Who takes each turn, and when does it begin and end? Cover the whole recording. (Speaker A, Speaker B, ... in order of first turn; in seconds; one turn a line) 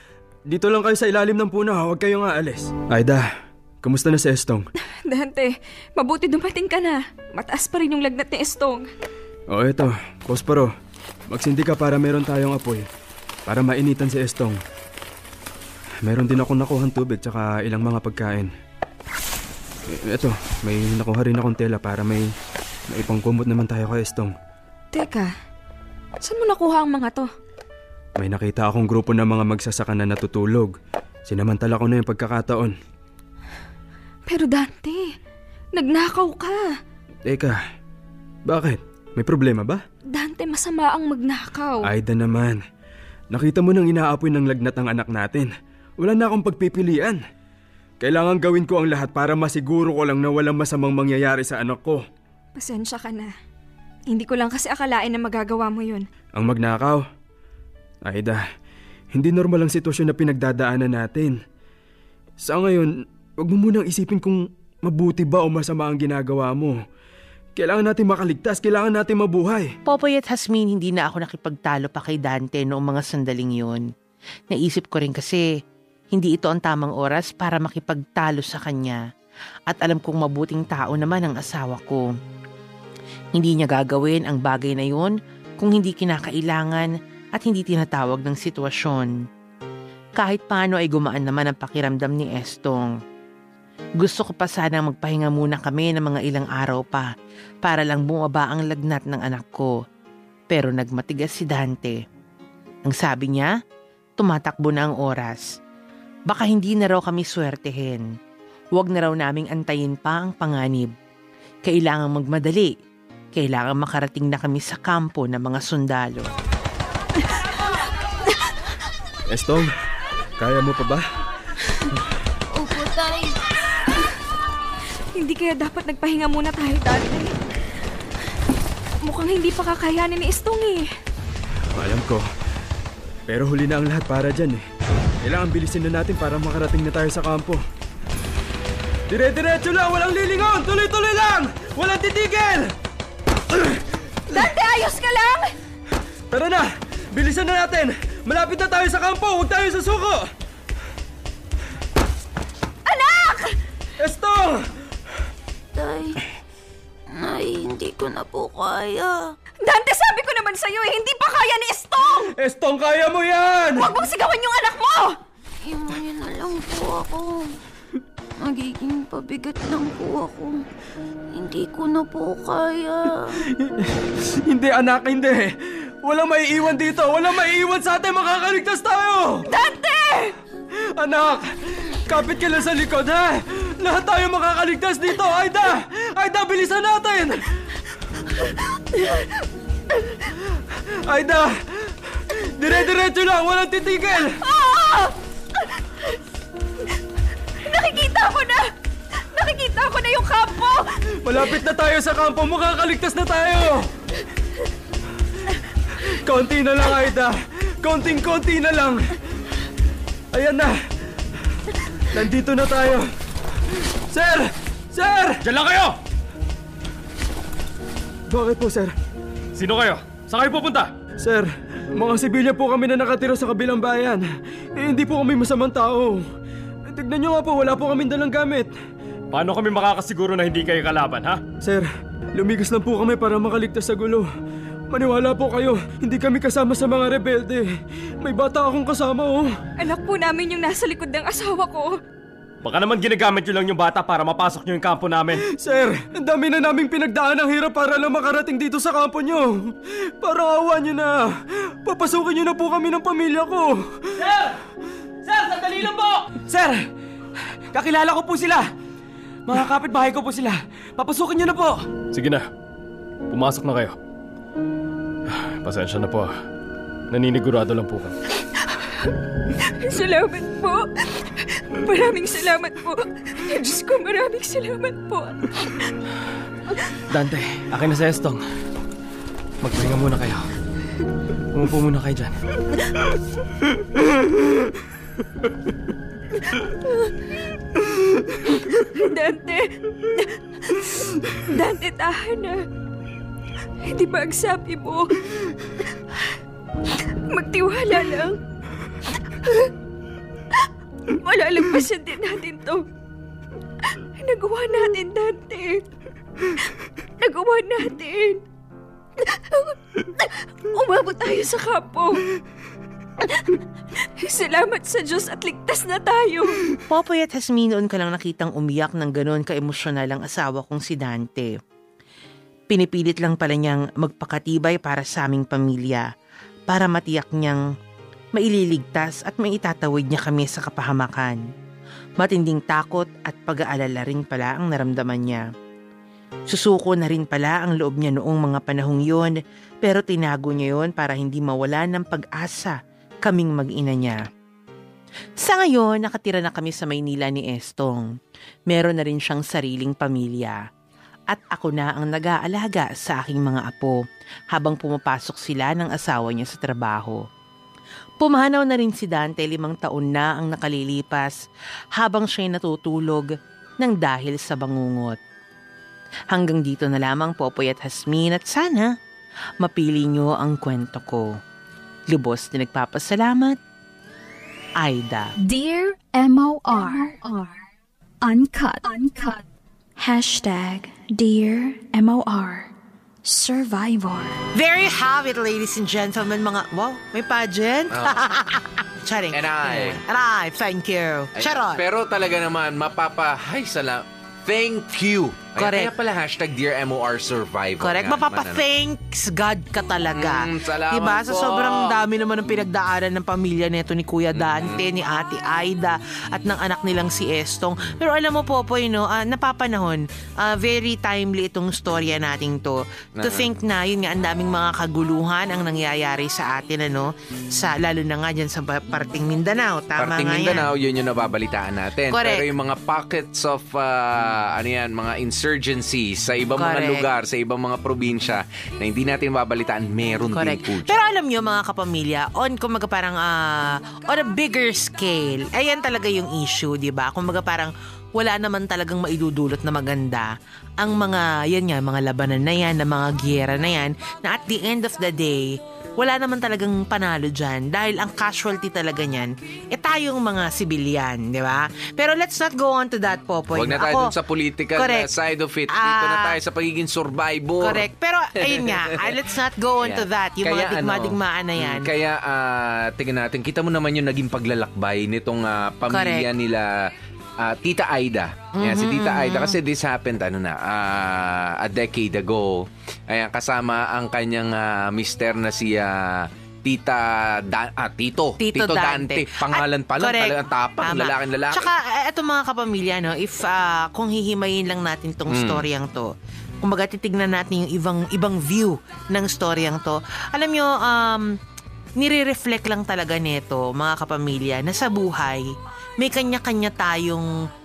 Speaker A: 0.5-3.3
Speaker A: 3.8-4.7
Speaker B: 5.1-8.9
Speaker A: 9.5-10.7
Speaker A: 11.3-12.9
Speaker A: 13.5-14.6
Speaker A: 16.0-18.5
Speaker A: 19.9-22.3
Speaker A: 22.9-24.4
Speaker B: 24.9-25.3
Speaker B: 26.2-27.3
Speaker A: 28.2-30.7
Speaker A: 31.3-32.8
Speaker B: 34.3-35.1
Speaker B: 35.8-36.7
Speaker A: 37.2-37.6
Speaker A: 38.5-39.8
Speaker B: 40.1-41.9
Speaker A: 41.8-42.6
Speaker A: 43.3-47.2
Speaker A: 48.0-52.0
Speaker B: 52.6-53.3
Speaker B: 54.1-56.0
Speaker A: 56.4-57.0
Speaker A: 58.0-58.4
Speaker A: 59.1-61.4
Speaker A: 62.4-66.8
Speaker A: 67.6-69.7
Speaker C: 69.9-73.8
Speaker C: 74.5-75.5
Speaker C: 76.1-79.0
Speaker C: 79.7-82.1
Speaker C: 83.3-89.1
Speaker C: 90.2-92.9
Speaker C: 94.0-97.1
Speaker C: 97.6-99.7
Speaker C: 100.5-102.0
Speaker C: 102.9-103.5
Speaker C: 104.2-105.5
Speaker C: 106.3-108.1
Speaker C: 108.8-110.9
Speaker C: 111.7-112.7
Speaker C: 113.3-116.3
Speaker A: 119.3-119.7
Speaker A: 120.4-121.0
Speaker D: 122.5-123.4
Speaker B: 125.2-127.3
Speaker B: 129.1-130.9
Speaker A: 131.7-132.2
Speaker A: 133.3-134.6
Speaker A: 135.2-137.6
Speaker A: 139.1-142.7
Speaker A: 143.5-144.5
Speaker B: 144.3-145.5
Speaker A: 146.3-150.3
Speaker B: 152.9-153.6
Speaker A: 154.0-154.6
Speaker D: 155.8-156.2
Speaker D: 157.1-159.3
Speaker B: 159.7-162.3
Speaker A: 162.4-163.9
Speaker B: 163.8-165.2
Speaker D: 165.7-167.5
Speaker D: 168.4-170.7
Speaker D: 171.3-173.4
Speaker A: 173.5-175.5
Speaker A: 176.0-179.5
Speaker B: 179.5-180.3
Speaker A: 181.0-187.4
Speaker B: 189.0-189.3
Speaker A: 190.7-194.4
Speaker B: 194.4-195.2
Speaker B: 197.6-198.7
Speaker B: 199.2-200.9
Speaker A: 201.2-203.9
Speaker A: 206.0-209.1
Speaker A: 210.3-210.8
Speaker A: 212.1-213.1
Speaker A: 214.1-215.4
Speaker E: 215.4-215.9
Speaker A: 218.3-218.9
Speaker E: 219.6-220.9
Speaker A: 221.2-224.2
Speaker A: 224.8-226.2
Speaker A: 226.9-228.7
Speaker E: 229.3-231.4
Speaker A: 231.6-234.3
Speaker A: 234.9-237.7
Speaker A: 238.2-239.5
Speaker B: 239.8-242.0
Speaker E: 242.6-245.4
Speaker A: 245.5-251.3
Speaker A: 251.8-254.2
Speaker E: 254.2-254.6
Speaker E: 255.2-256.8
Speaker E: 257.7-258.7
Speaker E: 259.5-262.5
Speaker E: 263.3-264.0
Speaker E: 265.3-266.3
Speaker E: 267.1-268.1
Speaker B: 269.6-275.9
Speaker E: 277.1-278.4
Speaker E: 279.6-280.5
Speaker E: 281.5-282.4
Speaker B: 286.5-287.1
Speaker B: 288.4-292.6
Speaker B: 293.8-295.2
Speaker B: 297.3-298.4
Speaker B: 299.3-299.7
Speaker B: 301.2-302.9
Speaker B: 303.9-305.9
Speaker B: 306.5-308.4
Speaker B: 309.2-312.2
Speaker B: 313.2-316.6
Speaker C: 316.9-321.5
Speaker C: 322.7-326.1
Speaker C: 326.7-327.6
Speaker C: 328.4-331.4
Speaker C: 332.2-335.5
Speaker C: 336.5-344.2
Speaker C: 345.4-348.1
Speaker C: 348.7-350.6
Speaker C: 351.3-354.0
Speaker C: 354.5-357.2
Speaker C: 358.2-361.4
Speaker C: 362.0-363.3
Speaker C: 363.8-365.2
Speaker C: 366.3-368.9
Speaker C: 369.6-371.3
Speaker C: 372.1-373.6
Speaker C: 374.8-375.3
Speaker F: 375.4-377.6
Speaker F: 378.2-379.4
Speaker F: 380.0-382.7
Speaker F: 383.2-384.3
Speaker C: 384.6-391.8
Speaker G: 387.9-388.2
Speaker G: 389.3-390.0
Speaker G: 391.4-398.6
Speaker C: 395.6-395.9
Speaker C: 397.8-420.7
Speaker G: 400.1-402.0
Speaker G: 404.3-404.8
Speaker G: 413.2-413.5
Speaker G: 420.0-431.0
Speaker C: 422.1-422.5
Speaker C: 426.6-427.1
Speaker C: 430.3-454.1
Speaker G: 453.5-457.9
Speaker C: 454.8-455.1
Speaker C: 455.7-456.3
Speaker C: 457.6-461.9
Speaker G: 458.4-459.2
Speaker G: 459.8-466.9
Speaker C: 465.9-466.3
Speaker G: 467.4-481.7
Speaker C: 468.6-469.6
Speaker C: 478.4-491.4
Speaker G: 485.3-485.6
Speaker C: 492.0-497.3